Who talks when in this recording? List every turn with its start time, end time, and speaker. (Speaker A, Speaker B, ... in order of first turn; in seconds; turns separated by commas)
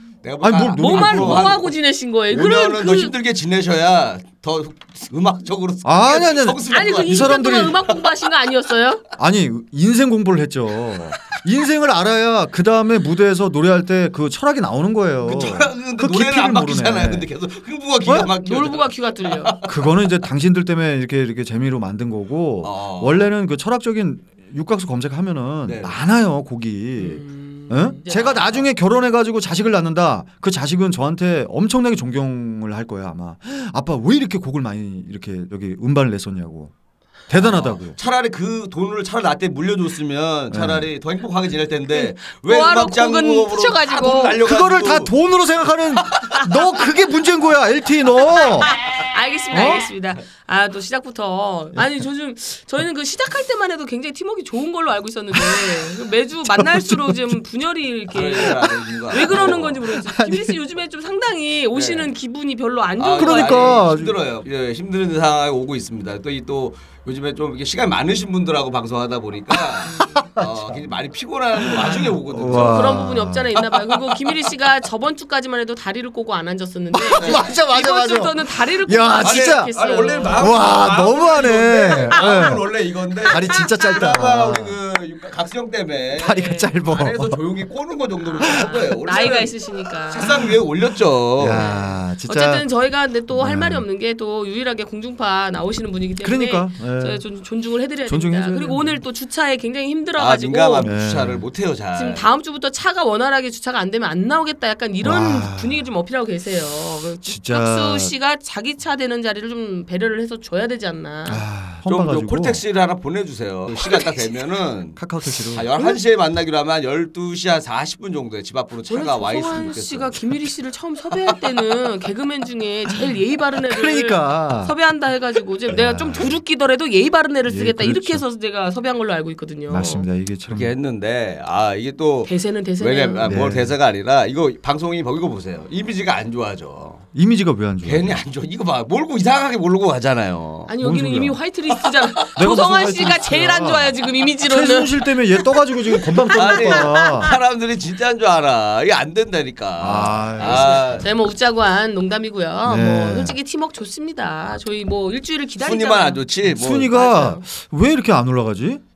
Speaker A: 0.2-1.8, Speaker B: 0.4-1.6, Speaker C: 0.8-3.1, Speaker A: 2.3-8.1, Speaker B: 5.8-7.8, Speaker C: 6.7-9.0, Speaker B: 9.2-17.3, Speaker A: 15.2-19.7, Speaker B: 18.0-18.3, Speaker C: 18.4-19.6, Speaker B: 19.7-36.7, Speaker A: 22.6-23.3, Speaker A: 25.6-25.9, Speaker C: 27.0-28.2, Speaker A: 28.1-28.6, Speaker B: 37.3-38.0, Speaker A: 37.3-45.1, Speaker B: 40.5-40.9, Speaker C: 41.9-44.4, Speaker B: 44.4-48.7, Speaker C: 48.2-63.8, Speaker B: 49.5-49.9, Speaker B: 55.3-55.9, Speaker B: 56.4-57.4, Speaker A: 58.1-59.8, Speaker B: 59.3-60.5, Speaker A: 61.7-62.1, Speaker A: 63.0-73.0, Speaker B: 63.2-64.1, Speaker C: 69.8-70.3, Speaker B: 70.1-70.8, Speaker B: 71.6-73.8, Speaker C: 72.5-80.6, Speaker B: 76.9-79.7, Speaker A: 77.2-77.5, Speaker A: 79.2-91.7, Speaker B: 80.2-82.7, Speaker C: 82.1-82.5, Speaker C: 83.2-84.0, Speaker B: 83.2-84.8, Speaker B: 86.1-87.4, Speaker C: 86.4-86.7, Speaker B: 88.4-88.9, Speaker C: 88.5-90.3, Speaker B: 90.2-90.5, Speaker B: 91.4-92.6, Speaker C: 91.5-100.9, Speaker B: 93.3-93.8, Speaker B: 96.2-97.2, Speaker B: 98.1-99.0, Speaker A: 100.2-102.3, Speaker B: 100.8-101.4, Speaker C: 102.0-111.4, Speaker B: 105.0-105.8, Speaker B: 107.2-108.1, Speaker B: 111.3-112.6, Speaker A: 111.9-115.0, Speaker B: 115.0-115.7, Speaker A: 115.5-120.2, Speaker C: 118.9-130.1, Speaker B: 123.7-124.7, Speaker B: 125.7-126.3, Speaker B: 127.5-128.2, Speaker B: 129.7-130.7, Speaker A: 130.5-137.0, Speaker C: 132.2-133.3, Speaker B: 133.2-133.7, Speaker B: 137.1-138.2, Speaker A: 137.8-140.7, Speaker C: 140.7-147.3, Speaker B: 140.8-141.4, Speaker B: 142.3-147.3, Speaker A: 146.3-151.1, Speaker B: 149.8-150.8, Speaker C: 150.4-156.2, Speaker B: 152.7-153.3, Speaker A: 155.6-156.9, Speaker B: 156.4-158.8, Speaker C: 156.8-157.4